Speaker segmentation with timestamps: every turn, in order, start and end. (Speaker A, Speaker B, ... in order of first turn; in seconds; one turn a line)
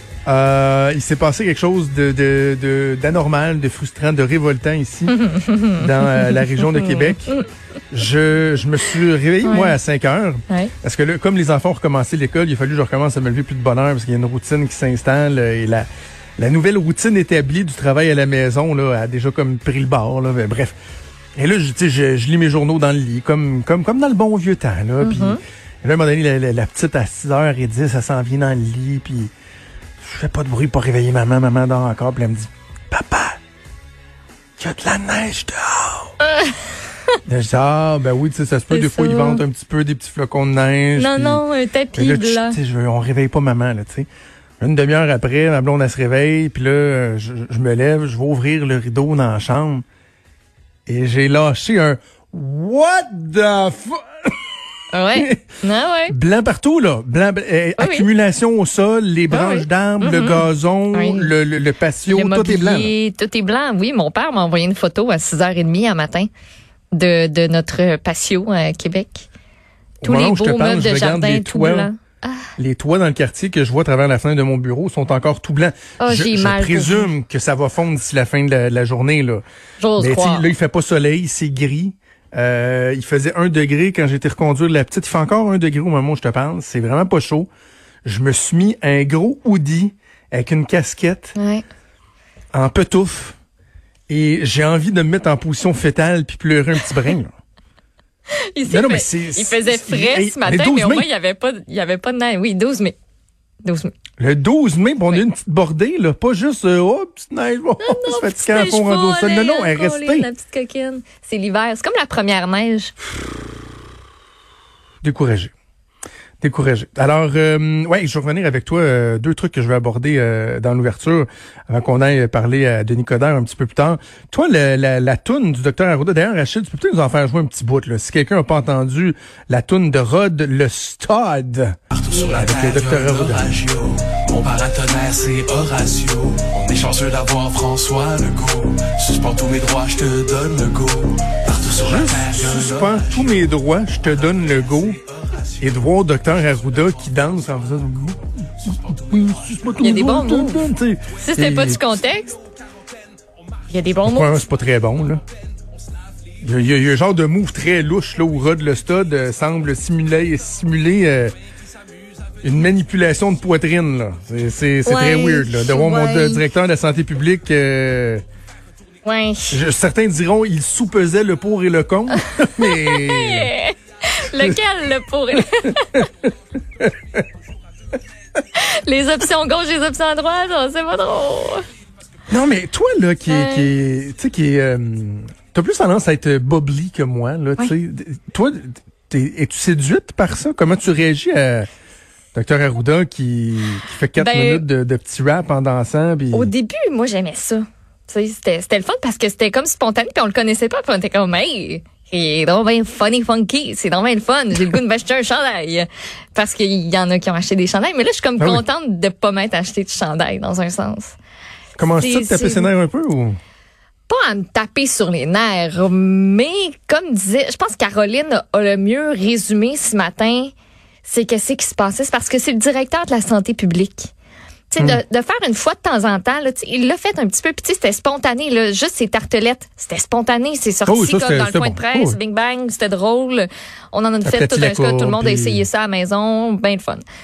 Speaker A: 0.2-7.4
Speaker B: 5.1-7.4
Speaker A: 7.9-15.9
Speaker B: 9.4-9.8
Speaker A: 16.4-20.7
Speaker A: 21.4-29.3
Speaker B: 25.0-25.4
Speaker A: 30.0-33.4
Speaker A: 34.6-36.1
Speaker A: 37.2-41.4
Speaker B: 38.7-39.4
Speaker B: 41.0-42.6
Speaker A: 41.9-44.1
Speaker A: 44.6-49.8
Speaker A: 50.9-54.3
Speaker B: 54.9-56.1
Speaker A: 55.1-55.5
Speaker A: 56.1-62.9
Speaker B: 57.8-58.1
Speaker B: 59.3-61.3
Speaker B: 62.1-66.3
Speaker B: 66.9-69.2
Speaker A: 70.0-71.9
Speaker B: 70.0-72.5
Speaker A: 72.6-79.4
Speaker B: 76.0-77.1
Speaker B: 79.8-80.5
Speaker A: 80.0-87.5
Speaker A: 88.0-91.3
Speaker B: 91.3-91.6
Speaker A: 92.5-93.3
Speaker A: 94.1-97.3
Speaker B: 98.5-102.9
Speaker A: 98.7-101.1
Speaker B: 103.6-103.9
Speaker A: 104.2-110.3
Speaker B: 107.8-112.9
Speaker A: 115.0-115.5
Speaker A: 116.4-133.6
Speaker C: 131.9-143.4
Speaker A: 141.7-145.0
Speaker C: 145.1-145.5
Speaker A: 145.6-152.0
Speaker B: 149.8-150.6
Speaker B: 151.2-152.4
Speaker B: 153.7-154.4
Speaker A: 154.0-155.2
Speaker A: 156.4-161.3
Speaker A: 162.4-168.2
Speaker B: 164.8-166.4
Speaker B: 169.0-169.6
Speaker A: 169.5-173.5
Speaker B: 172.7-176.1
Speaker A: 176.8-177.2
Speaker B: 178.5-181.6
Speaker A: 182.3-191.7
Speaker B: 183.3-183.7
Speaker A: 192.3-196.5
Speaker B: 194.2-194.6
Speaker B: 196.3-211.2
Speaker A: 208.4-208.6
Speaker A: 211.8-213.4
Speaker B: 211.9-212.7
Speaker B: 214.1-220.5
Speaker B: 221.0-224.1
Speaker B: 224.7-237.0
Speaker A: 230.8-232.2
Speaker A: 234.2-235.6